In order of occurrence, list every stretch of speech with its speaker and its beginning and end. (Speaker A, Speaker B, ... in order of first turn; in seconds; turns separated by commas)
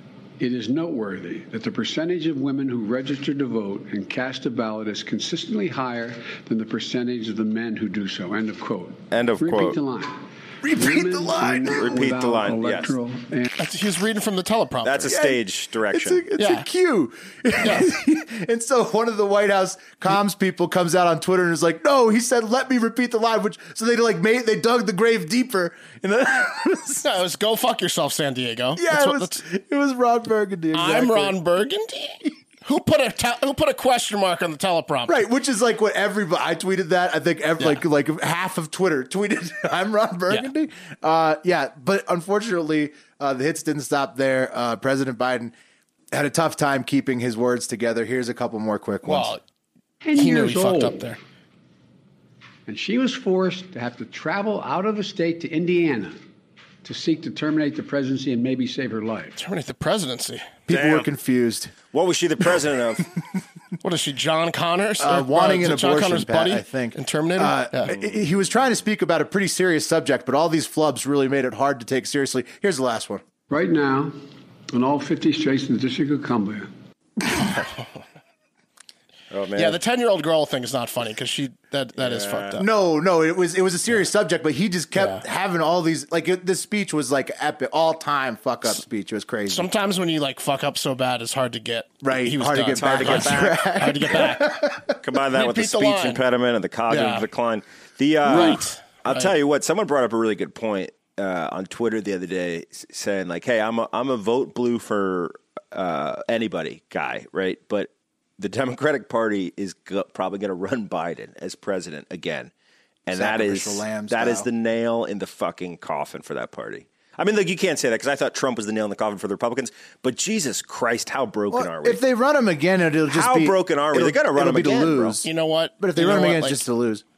Speaker A: 0.4-13.5, Speaker B: 9.1-9.8, Speaker C: 10.6-11.8, Speaker B: 11.7-12.9, Speaker D: 13.6-15.1, Speaker B: 14.8-16.2, Speaker C: 15.1-27.1, Speaker D: 16.4-16.7, Speaker D: 17.6-17.9, Speaker D: 27.0-29.4, Speaker C: 28.8-31.4, Speaker D: 30.7-35.2, Speaker C: 35.1-45.5, Speaker C: 46.1-49.3, Speaker D: 49.0-49.4, Speaker A: 50.0-51.1, Speaker D: 50.1-51.2, Speaker A: 52.7-56.2, Speaker A: 56.8-59.4, Speaker D: 59.4-60.5, Speaker C: 60.7-61.7, Speaker B: 60.7-61.1, Speaker B: 61.9-63.1, Speaker D: 63.8-67.9, Speaker C: 65.0-73.2, Speaker A: 73.5-74.2, Speaker A: 74.7-76.7, Speaker B: 79.3-79.8, Speaker D: 79.6-82.7, Speaker B: 82.0-82.6, Speaker C: 82.6-89.7, Speaker D: 89.5-94.6, Speaker C: 92.0-95.0, Speaker B: 92.7-94.3, Speaker B: 95.0-112.5, Speaker D: 95.3-96.2, Speaker D: 96.9-97.3, Speaker D: 98.3-99.3, Speaker B: 113.1-122.0, Speaker C: 113.1-114.5, Speaker C: 121.5-125.3, Speaker B: 123.1-125.2, Speaker D: 125.2-126.6, Speaker C: 125.8-127.0